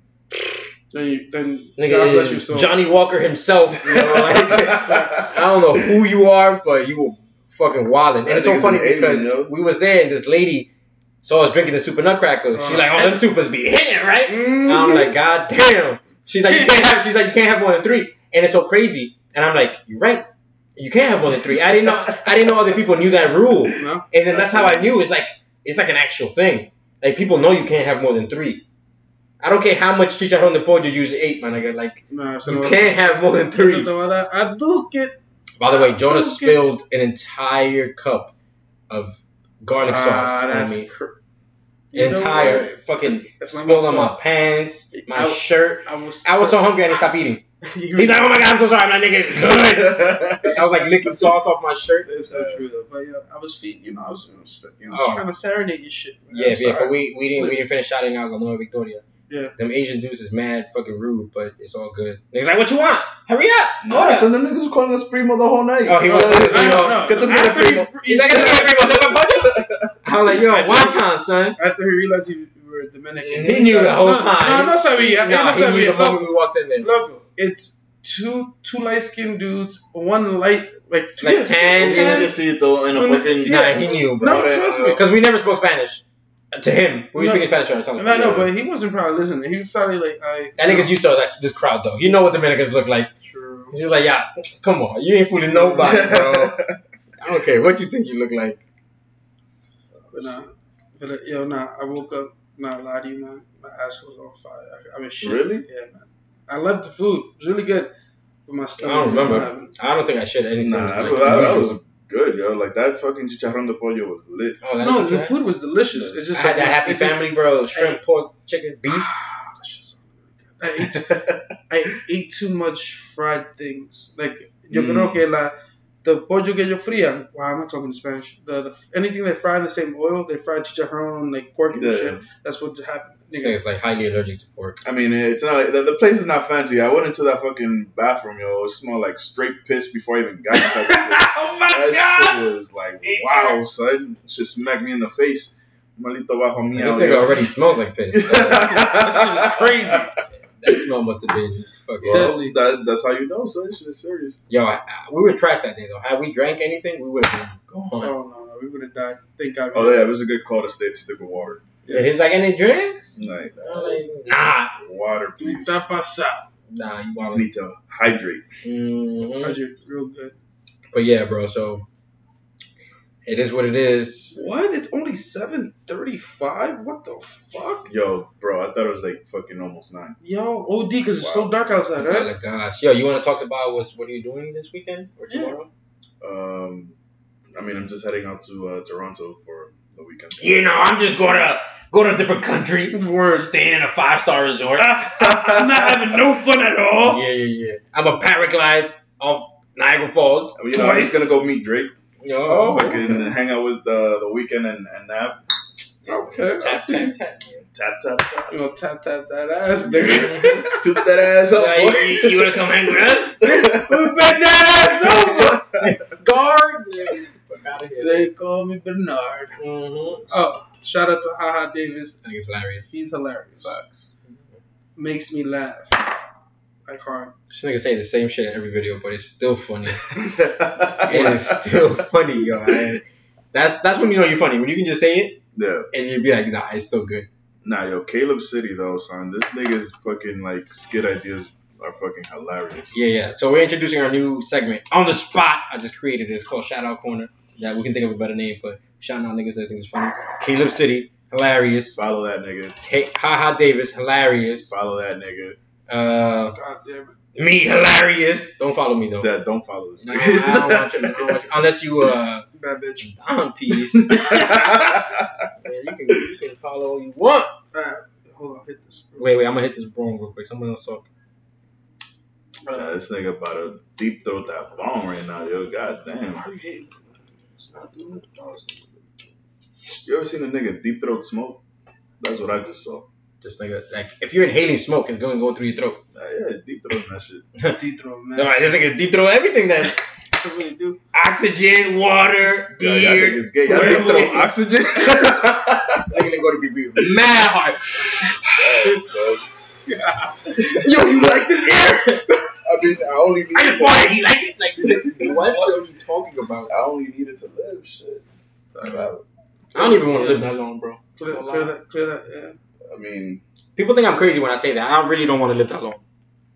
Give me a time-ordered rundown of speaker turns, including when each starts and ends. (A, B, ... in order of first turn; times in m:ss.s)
0:00.3-0:00.6 A
0:00.9-0:02.8 B
0:01.8-0:10.7 A
0:03.8-0:05.9 C
0:03.9-0:05.4 B
0:08.2-0:09.5 C
0:11.2-0:28.6 A
0:12.5-0:13.2 B
0:14.2-0:15.2 B
0:16.5-0:16.9 B
0:21.4-0:22.6 C
0:23.6-0:24.9 C
0:23.8-0:24.1 B
0:29.4-0:33.9 A
0:32.1-0:36.7 B
0:35.6-0:38.3 A
0:38.9-0:40.9 A
0:39.8-0:41.2 B
0:41.9-0:44.2 B
0:41.9-0:52.1 A
0:42.3-0:42.7 C
0:44.9-0:46.9 B
0:47.6-0:48.5 B
0:49.4-0:50.9 C
0:52.0-0:57.6 B
0:52.2-0:52.6 C
0:54.9-0:55.3 A
0:56.3-0:59.0 A
0:56.6-0:56.9 C
0:59.3-0:59.5 B
0:59.6-1:04.3 A
1:03.8-1:09.9 C
1:05.8-1:07.1 A
1:06.0-1:09.1 B
1:08.0-1:11.6 A
1:10.3-1:11.0 B
1:11.6-1:16.3 B
1:13.2-1:16.9 A
1:16.8-1:25.0 B
1:21.2-1:22.3 A
1:21.8-1:25.0 C
1:23.4-1:28.4 A
1:27.1-1:30.9 B
1:28.1-1:28.5 C
1:30.6-1:33.1 A
1:33.2-1:33.8 B
1:33.7-1:36.6 A
1:35.5-1:36.0 B
1:35.8-1:36.8 C
1:37.2-1:38.6 A
1:40.0-1:40.5 C
1:40.1-1:47.9 B
1:45.2-1:45.6 C
1:48.5-1:49.7 B
1:48.8-1:51.8 A
1:50.6-1:54.6 C
1:54.6-1:55.4 A
1:54.8-1:58.0 B
1:55.9-1:56.2 C
1:56.3-1:59.1 A
1:58.9-2:01.1 B
2:00.8-2:01.6 C
2:01.7-2:13.6 B
2:04.7-2:05.2 C
2:11.7-2:12.2 C
2:13.3-2:14.8 A
2:14.8-2:27.5 C
2:20.6-2:22.5 A
2:23.0-2:23.6 A
2:26.7-2:28.7 A
2:28.1-2:30.0 C
2:28.6-2:30.1 B
2:30.4-2:32.4 A
2:32.0-2:34.4 C
2:32.0-2:32.6 B
2:34.5-2:38.1 A
2:38.0-2:40.2 B
2:39.7-2:42.1 C
2:41.9-2:42.1 B
2:41.9-2:44.7 A
2:43.1-2:44.1 C
2:44.7-2:45.8 C
2:45.4-2:46.5 B
2:46.7-2:47.5 A
2:47.3-2:48.4 C
2:48.6-2:49.6 A
2:49.4-2:50.4 B
2:50.9-2:51.9 A
2:53.2-2:54.3 A
2:54.3-2:57.9 B
2:57.9-3:00.2 C
3:00.2-3:02.3 B
3:01.2-3:01.6 C
3:02.0-3:05.7 A
3:05.3-3:05.6 B
3:06.2-3:06.9 C
3:07.5-3:10.8 C
3:10.4-3:15.3 A
3:12.9-3:13.5 B
3:15.2-3:17.2 B
3:15.2-3:16.2 C
3:17.0-3:20.6 A
3:20.6-3:21.9 C
3:20.7-3:21.2 B
3:22.2-3:23.0 A
3:22.5-3:23.3 B
3:22.6-3:25.4 C
3:26.0-3:27.1 B
3:26.1-3:27.6 A
3:27.7-3:28.6 C
3:28.5-3:30.8 B
3:29.8-3:32.6 C
3:29.9-3:30.7 A
3:31.5-3:33.5 A
3:33.4-3:34.2 C
3:33.7-3:35.6 B
3:35.0-3:35.9 C
3:35.7-3:38.3 A
3:38.0-3:39.6 B
3:39.6-3:40.3 A
3:40.2-3:42.2 B
3:42.2-3:42.9 A
3:42.9-3:43.8 B
3:43.6-3:44.1 C
3:45.0-3:46.2 B
3:46.8-3:47.3 B
3:47.5-3:50.1 A
3:50.3-3:52.8 C
3:51.0-3:55.4 A
3:55.5-3:55.9 C
3:55.9-3:57.3 A
3:57.6-4:03.0 C
4:02.9-4:12.0 A
4:11.9-4:12.8 C
4:12.8-4:14.7 A
4:14.7-4:15.6 C
4:15.9-4:16.6 A
4:16.5-4:17.1 B
4:17.3-4:19.3 A
4:19.2-4:21.4 C
4:20.0-4:22.4 A
4:22.5-4:23.1 B
4:23.0-4:25.0 A
4:23.9-4:25.4 C
4:25.6-4:27.5 A
4:27.7-4:29.4 B
4:29.2-4:31.0 A
4:32.6-4:32.9 B
4:32.7-4:36.5 C
4:36.3-4:39.2 B
4:40.0-4:41.6 C
4:42.2-4:43.1 C
4:43.4-4:46.0 A
4:46.1-4:47.4 C
4:47.7-4:48.8 B
4:48.4-4:50.0 A
4:50.4-4:51.0 B
4:51.1-4:54.2 A
4:52.7-4:56.3 C
4:53.6-4:54.5 B
4:56.1-4:58.9 A
4:58.5-4:59.5 C
4:59.9-5:02.3 B
5:00.5-5:01.5 A
5:01.0-5:01.4 C
5:02.6-5:04.2 C
5:03.5-5:06.7 A
5:04.8-5:05.6 C
5:05.4-5:05.8 B
5:06.7-5:08.2 C
5:08.7-5:09.1 B
5:08.8-5:09.2 C
5:09.7-5:10.5 B
5:09.7-5:11.7 A
5:11.2-5:12.5 B
5:12.9-5:13.4 C
5:13.8-5:16.0 A